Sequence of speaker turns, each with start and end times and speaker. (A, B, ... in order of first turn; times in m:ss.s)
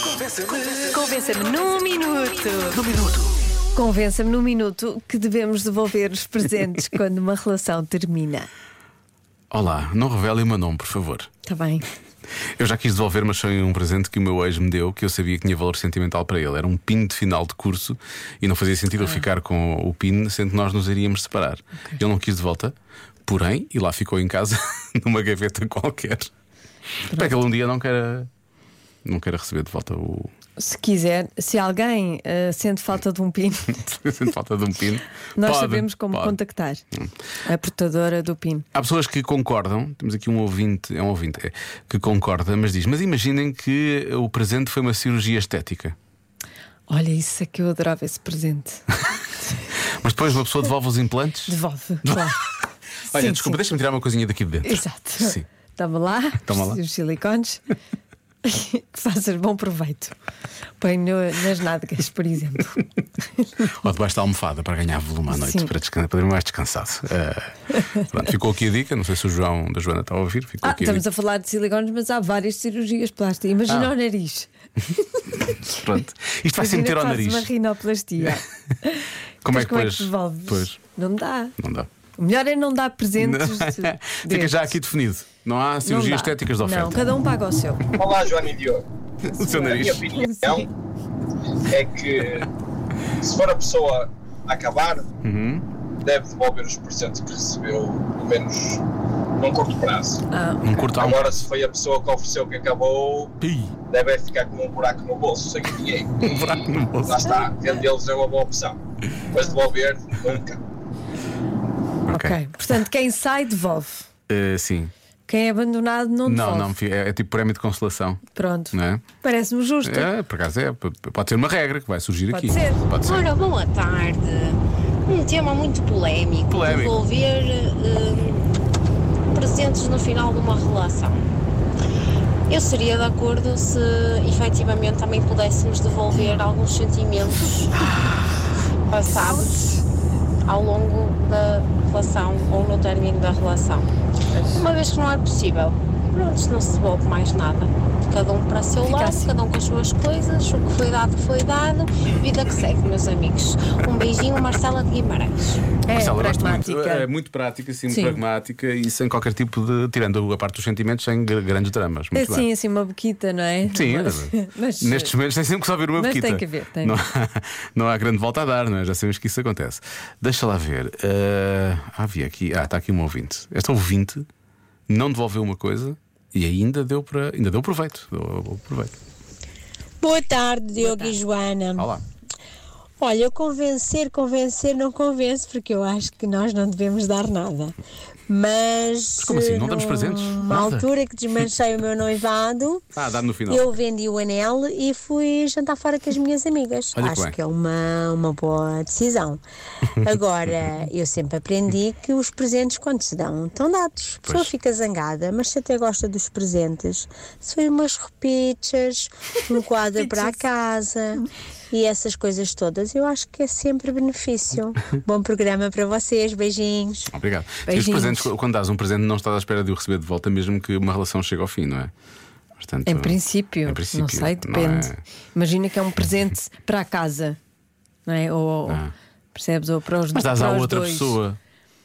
0:00.7-0:02.8 A
0:02.8-0:03.1 B
0:03.7-0:08.5 A
0:09.5-0:11.3 B
0:11.4-0:11.8 A
0:12.6-0:22.7 B
0:23.2-0:26.3 B
0:27.0-0:28.3 B
0:27.1-0:27.4 A
0:29.0-0:30.3 B
0:30.6-0:34.3 A
0:34.0-0:36.3 B
0:35.4-0:36.8 A
0:37.4-0:38.6 A
0:38.7-0:46.0 B
0:46.9-0:48.8 A
0:49.8-0:52.3 B
0:51.4-0:52.5 A
0:53.1-0:55.4 B
0:53.1-0:53.6 A
0:54.6-0:57.6 A
0:56.4-0:56.8 B
0:58.4-1:00.1 A
1:00.8-1:03.5 A
1:03.6-1:11.0 B
1:05.3-1:05.7 A
1:10.6-1:15.7 A
1:15.5-1:17.5 B
1:16.6-1:21.5 A
1:19.4-1:20.8 B
1:21.6-1:21.9 B
1:22.2-1:24.8 A
1:23.2-1:27.0 B
1:25.8-1:27.8 A
1:28.0-1:30.7 C
1:29.2-1:30.0 B
1:30.2-1:30.7 A
1:31.7-1:32.5 C
1:33.2-1:35.0 C
1:35.2-1:35.6 B
1:36.0-1:38.8 C
1:39.4-1:40.2 C
1:40.3-1:41.0 A
1:40.6-1:41.3 B
1:41.0-1:43.3 C
1:43.4-1:43.7 B
1:43.9-1:48.8 C
1:46.2-1:47.3 B
1:49.3-1:50.6 C
1:52.1-1:52.4 B
1:52.1-1:54.1 A
1:54.3-1:54.9 B
1:55.3-1:56.7 A
1:56.2-1:59.0 B
1:58.3-2:00.1 A
1:59.8-2:03.4 B
2:02.3-2:02.8 A
2:03.0-2:08.6 D
2:06.5-2:07.0 B
2:09.3-2:11.2 D
2:12.5-2:17.8 D
2:18.9-2:19.7 D
2:19.2-2:19.5 A
2:20.4-2:23.9 D
2:24.3-2:24.6 A
2:24.5-2:35.6 D
2:28.8-2:29.3 A
2:35.8-2:37.1 A
2:35.9-2:42.4 B
2:37.9-2:38.2 A
2:42.1-2:45.1 A
2:43.7-2:54.3 B
2:46.0-2:47.0 A
2:54.9-2:59.0 B
3:00.0-3:01.9 E
3:00.8-3:01.2 B
3:01.8-3:02.0 B
3:03.0-3:07.8 E
3:08.3-3:12.9 E
3:09.2-3:10.9 B
3:13.0-3:13.8 B
3:13.5-3:19.4 E
3:16.9-3:17.4 B
3:20.0-3:37.1 E
3:30.0-3:30.3 A
3:37.1-3:41.9 B
3:37.7-3:38.3 A
3:42.6-3:45.0 B
3:42.8-3:47.4 A
3:48.0-3:51.2 A
3:50.1-3:51.4 B